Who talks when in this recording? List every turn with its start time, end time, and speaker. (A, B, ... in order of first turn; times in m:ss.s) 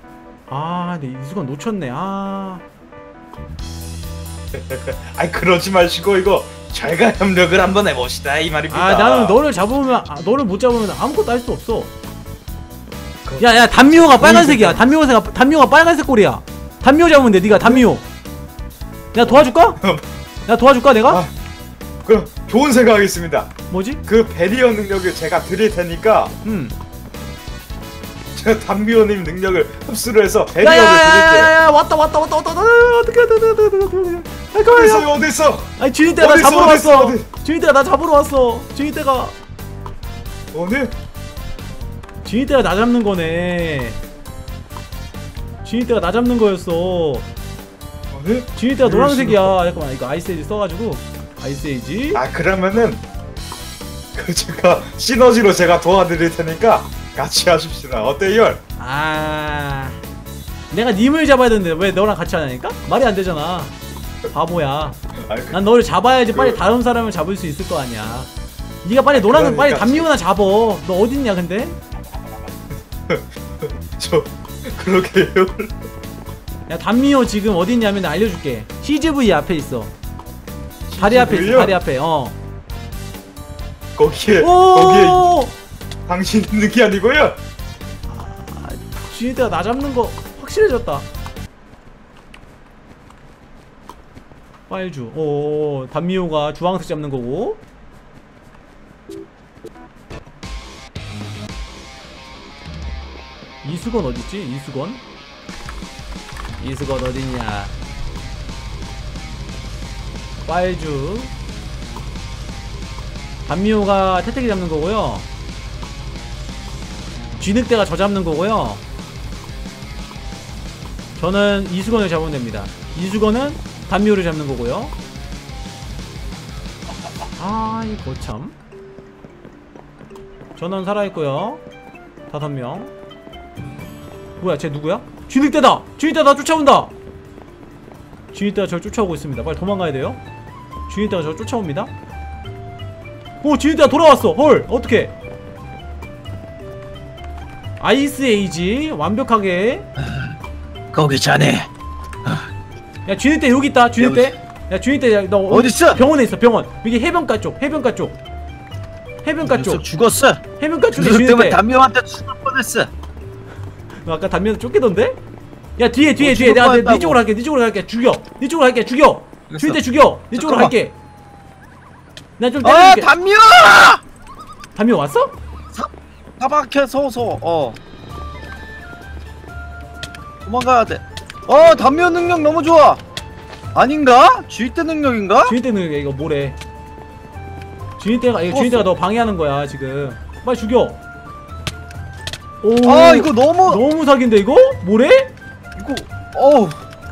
0:00.5-0:02.6 A
0:04.5-0:09.4 B
0:08.7-0:11.9 A
0:13.2-0:14.9 B
0:13.4-0:18.0 A
0:17.5-0:17.9 B
0:19.1-0:19.8 A
0:19.2-0:20.0 B
0:20.5-0:21.2 A
0:22.0-0:23.5 B
0:23.7-0:24.0 A
0:24.0-0:26.3 B
0:26.4-0:26.8 A
0:28.4-0:31.5 B
0:30.6-0:35.1 A
0:34.6-0:37.3 B
0:35.8-0:39.4 A
0:40.5-0:41.0 B
0:42.2-0:44.0 A
0:45.6-0:47.3 A
0:48.1-0:49.5 B
0:48.6-0:52.2 A
0:52.1-0:53.0 B
0:54.1-0:58.6 B
0:58.8-1:00.0 A
1:00.7-1:03.8 A
1:04.3-1:05.0 A
1:05.2-1:05.6 B
1:05.5-1:08.3 A
1:06.3-1:06.6 B
1:08.8-1:11.8 A
1:09.1-1:10.1 B
1:13.1-1:15.7 B
1:16.7-1:19.9 A
1:20.9-1:21.8 B
1:21.0-1:22.4 A
1:24.0-1:25.3 B
1:24.4-1:25.5 A
1:26.1-1:27.4 B
1:28.1-1:31.1 A
1:34.7-1:37.6 A
1:43.6-1:45.0 A
1:46.6-1:47.7 A
1:50.4-1:51.3 A
1:53.5-1:55.3 A
1:57.4-1:58.8 A
2:01.2-2:04.9 A
2:07.4-2:08.6 A
2:10.6-2:11.6 A
2:12.3-2:12.9 A
2:14.4-2:16.9 A
2:18.3-2:20.2 A
2:20.9-2:21.9 A
2:23.4-2:25.1 A
2:27.8-2:29.9 A
2:30.9-2:31.7 C
2:33.0-2:38.2 A
2:34.0-2:34.3 C
2:35.5-2:36.0 C
2:39.2-2:39.8 A
2:39.4-2:40.4 C
2:40.6-2:41.6 A
2:40.9-2:42.9 C
2:44.0-2:45.2 A
2:45.8-2:51.0 A
2:46.2-2:47.2 C
2:49.5-2:49.8 C
2:50.3-2:50.8 C
2:52.4-2:53.1 A
2:52.6-2:54.0 C
2:54.8-2:55.4 A
2:55.7-2:57.8 C
3:00.4-3:03.0 C
3:03.7-3:05.5 C
3:05.4-3:06.6 A
3:08.0-3:11.0 A
3:08.5-3:08.9 C
3:12.6-3:15.3 A
3:12.8-3:13.8 C
3:15.8-3:16.8 C